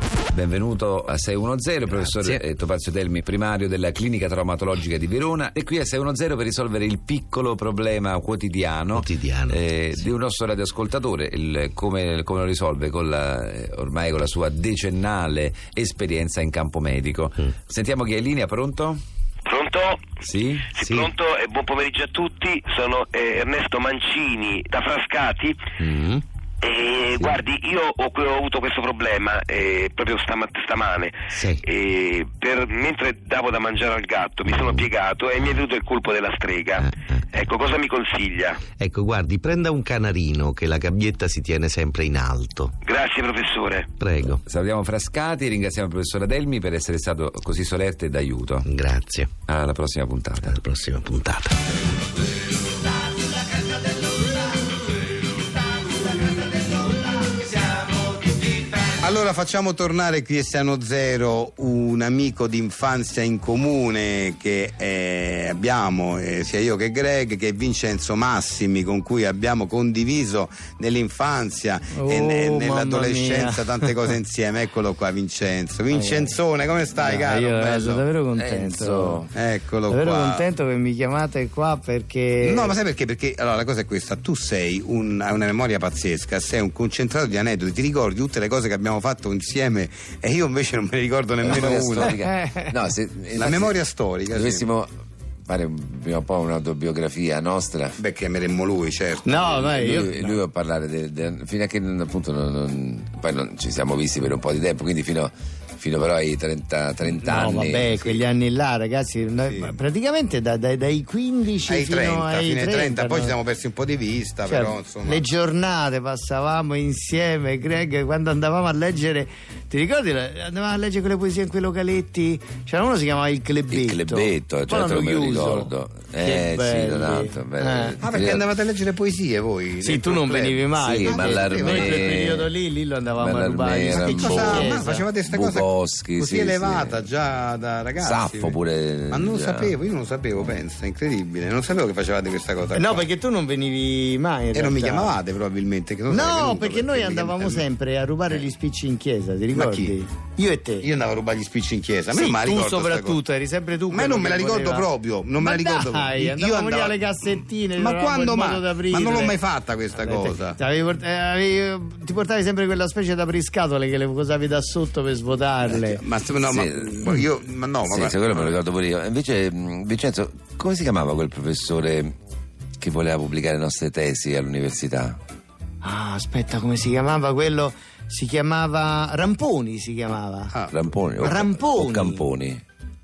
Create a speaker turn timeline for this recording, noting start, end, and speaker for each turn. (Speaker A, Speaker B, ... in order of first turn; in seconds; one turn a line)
Speaker A: 0.3-19.0
Speaker B: 2.0-2.4
Speaker B: 8.9-10.1
Speaker C: 19.4-20.1
Speaker B: 20.3-21.2
Speaker C: 20.8-25.6
Speaker B: 25.8-26.2
Speaker C: 26.6-38.6
Speaker B: 27.1-27.4
Speaker B: 31.3-31.6
Speaker B: 36.8-37.2
Speaker B: 38.7-42.8
Speaker C: 42.8-43.9
Speaker B: 43.9-44.4
Speaker A: 44.4-48.7
Speaker B: 48.6-49.3
Speaker A: 49.5-50.6
Speaker B: 50.4-51.5
Speaker D: 59.0-78.0
Speaker E: 71.9-74.0
Speaker E: 75.9-76.3
Speaker E: 77.0-79.2
Speaker A: 78.3-79.3
Speaker D: 79.3-80.5
Speaker E: 79.9-82.7
Speaker D: 82.4-92.2
Speaker A: 91.4-93.8
Speaker E: 92.0-92.7
Speaker D: 93.3-94.7
Speaker A: 94.3-94.9
Speaker A: 95.5-98.0
Speaker D: 98.0-99.6
Speaker E: 99.2-100.3
Speaker A: 99.5-108.0
Speaker E: 107.2-113.4
Speaker D: 109.5-109.8
Speaker D: 111.7-115.2
Speaker E: 114.5-128.0
Speaker A: 123.7-128.4
Speaker D: 128.0-132.2
Speaker E: 129.8-135.1
Speaker A: 130.8-132.5
Speaker A: 133.2-137.1
Speaker D: 133.9-138.6
Speaker A: 138.0-139.7
Speaker D: 139.1-143.1
Speaker E: 142.7-145.2
Speaker D: 144.5-147.7
Speaker E: 146.1-150.9
Speaker D: 149.5-150.0
Speaker D: 150.8-153.2
Speaker E: 152.1-159.4
Speaker D: 153.9-157.0
Speaker D: 157.7-160.6
Speaker E: 159.9-166.0
Speaker D: 165.7-168.5
Speaker A: 166.5-167.3
Speaker A: 167.8-172.1
Speaker A: 172.8-175.2
Speaker E: 175.8-180.5
Speaker D: 180.5-181.4
Speaker A: 180.7-182.6
Speaker E: 181.2-182.2